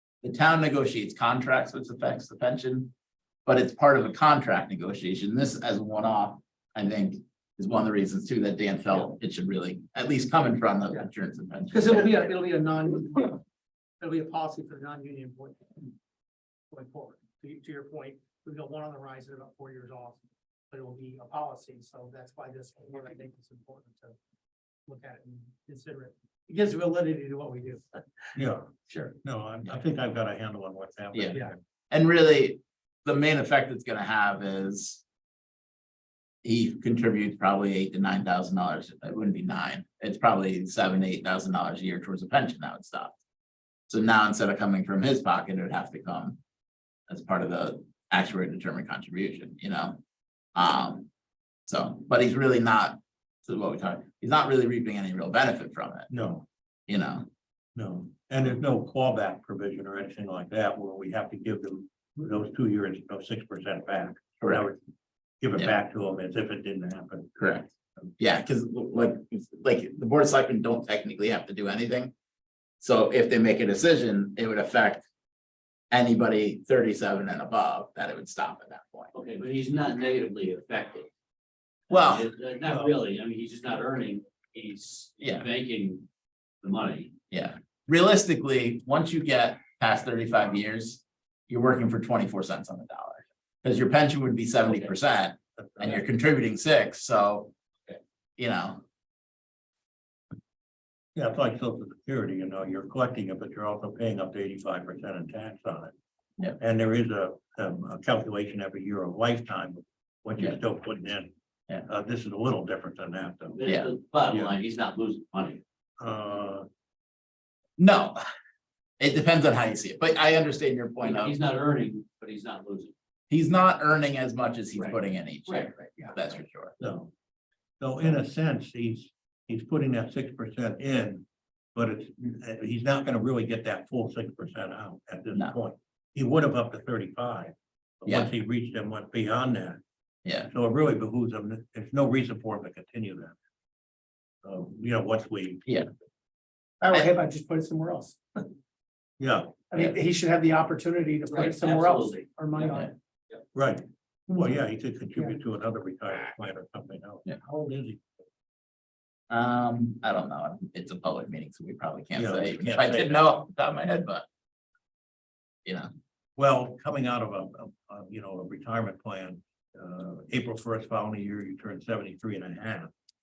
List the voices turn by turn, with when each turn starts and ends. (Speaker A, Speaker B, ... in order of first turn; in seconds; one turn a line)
Speaker A: 0.2-2.9
Speaker A: 3.5-12.3
Speaker B: 11.7-13.4
Speaker B: 14.0-15.8
Speaker B: 16.7-24.1
Speaker B: 24.9-28.4
Speaker C: 28.3-28.7
Speaker A: 28.9-29.8
Speaker C: 29.2-31.6
Speaker A: 31.1-31.4
Speaker A: 31.9-35.0
Speaker A: 36.4-43.1
Speaker A: 43.9-46.4
Speaker A: 47.1-50.0
Speaker A: 50.5-51.1
Speaker A: 51.7-56.1
Speaker C: 56.1-56.4
Speaker A: 56.9-57.3
Speaker C: 57.8-64.8
Speaker C: 65.4-67.4
Speaker A: 67.4-72.1
Speaker A: 72.8-75.0
Speaker A: 75.9-79.1
Speaker D: 79.1-81.1
Speaker A: 81.9-82.3
Speaker D: 81.9-86.1
Speaker A: 85.2-85.5
Speaker D: 86.6-87.1
Speaker A: 87.3-97.5
Speaker D: 94.7-94.9
Speaker C: 95.7-96.0
Speaker A: 98.4-98.8
Speaker C: 101.1-105.9
Speaker C: 106.6-113.6
Speaker D: 113.5-115.6
Speaker A: 113.7-113.9
Speaker C: 114.3-114.5
Speaker C: 116.0-116.7
Speaker A: 117.8-118.2
Speaker A: 119.0-121.3
Speaker D: 121.0-122.9
Speaker A: 123.3-126.7
Speaker D: 124.7-126.1
Speaker C: 126.8-127.1
Speaker C: 127.8-139.8
Speaker A: 138.1-138.3
Speaker A: 140.2-140.5
Speaker C: 140.5-143.3
Speaker C: 144.4-145.6
Speaker B: 146.8-148.4
Speaker C: 149.2-149.8
Speaker B: 149.7-152.9
Speaker D: 151.3-152.8
Speaker C: 153.5-158.0
Speaker A: 159.3-164.2
Speaker C: 162.1-163.2
Speaker C: 166.4-172.9